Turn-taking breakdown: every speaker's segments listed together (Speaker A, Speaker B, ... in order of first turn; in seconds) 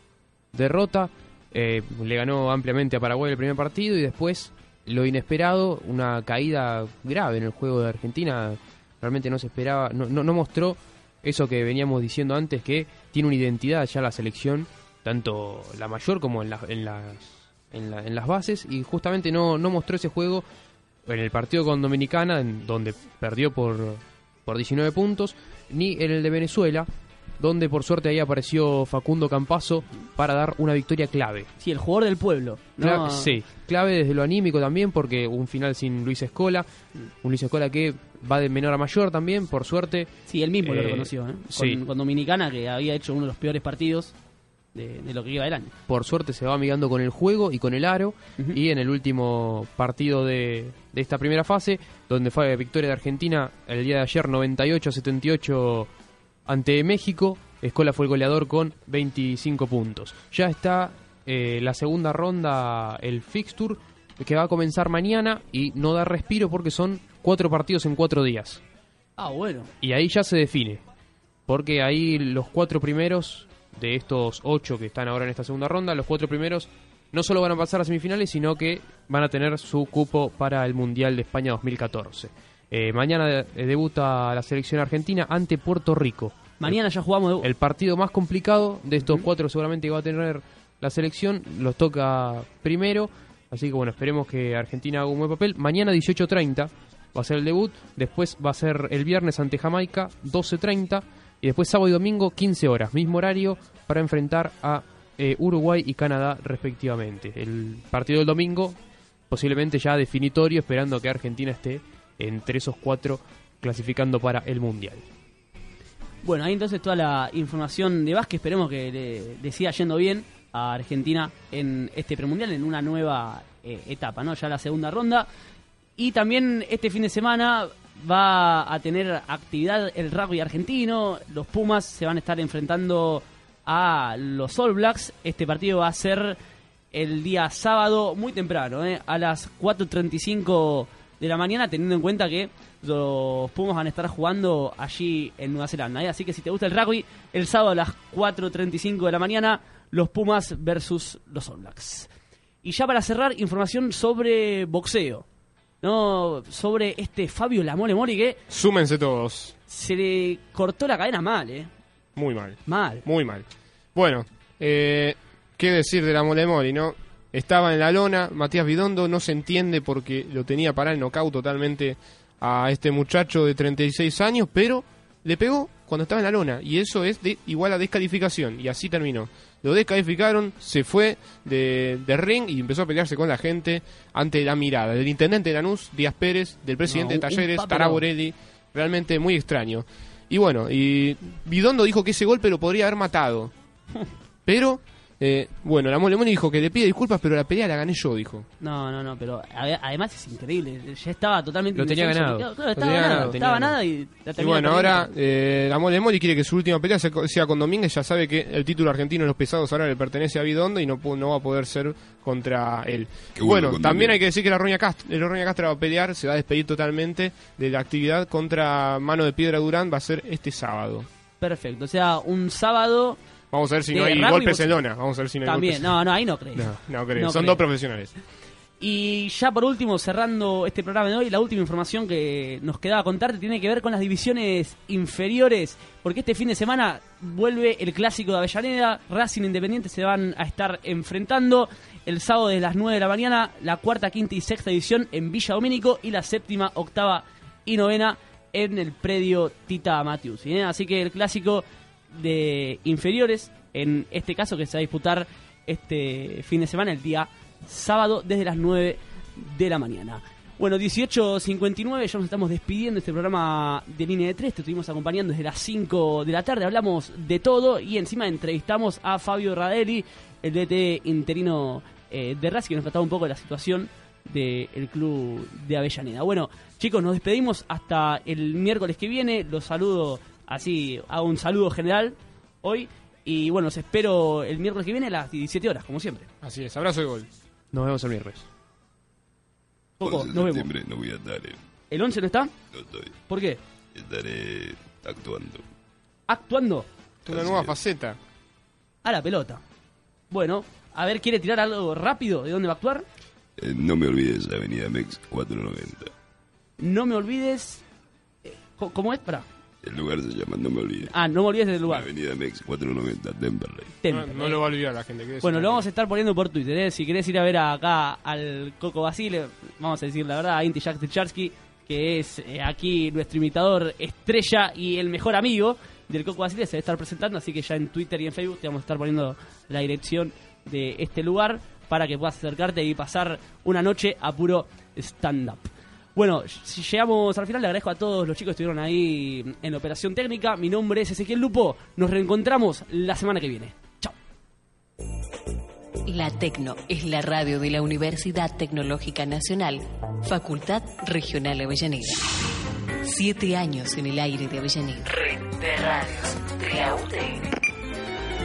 Speaker A: 0.5-20.4, 21.1-26.9, 27.4-31.5, 32.8-36.7, 37.2-40.1, 40.6-41.8, 45.9-55.9, 56.5-68.6, 69.8-70.8, 71.5-86.8, 87.4-108.8, 109.3-115.0, 201.7-203.7, 287.7-288.4
Speaker B: 31.6-33.4, 40.3-44.1, 44.7-45.7, 69.2-69.7, 86.6-87.5, 89.0-89.3, 116.2-125.3, 126.0-136.4, 136.9-152.1, 152.6-155.2, 155.8-158.4, 159.7-161.7, 162.7-163.0, 186.8-188.0, 198.6-205.1, 221.4-223.2, 223.9-224.7, 225.4-227.6, 228.8-286.3, 290.0-290.7, 291.9-292.5, 293.3-293.6, 296.3-296.9, 299.0-299.6, 300.3-303.0, 306.8-307.8, 308.4-309.5, 311.0-312.1, 314.0-314.6, 315.4-344.1
Speaker C: 158.5-159.5, 162.2-193.5, 194.4-198.5, 202.8-203.4, 204.4-221.1, 223.5-225.9, 226.5-228.1, 286.4-287.3, 297.2-298.2, 314.1-315.8
Speaker D: 213.4-214.2, 290.0-291.6, 292.7-293.1, 293.9-295.6, 297.3-297.7, 303.6-306.1, 309.8-311.1, 311.9-313.9
Speaker E: 346.1-352.2, 353.1-357.5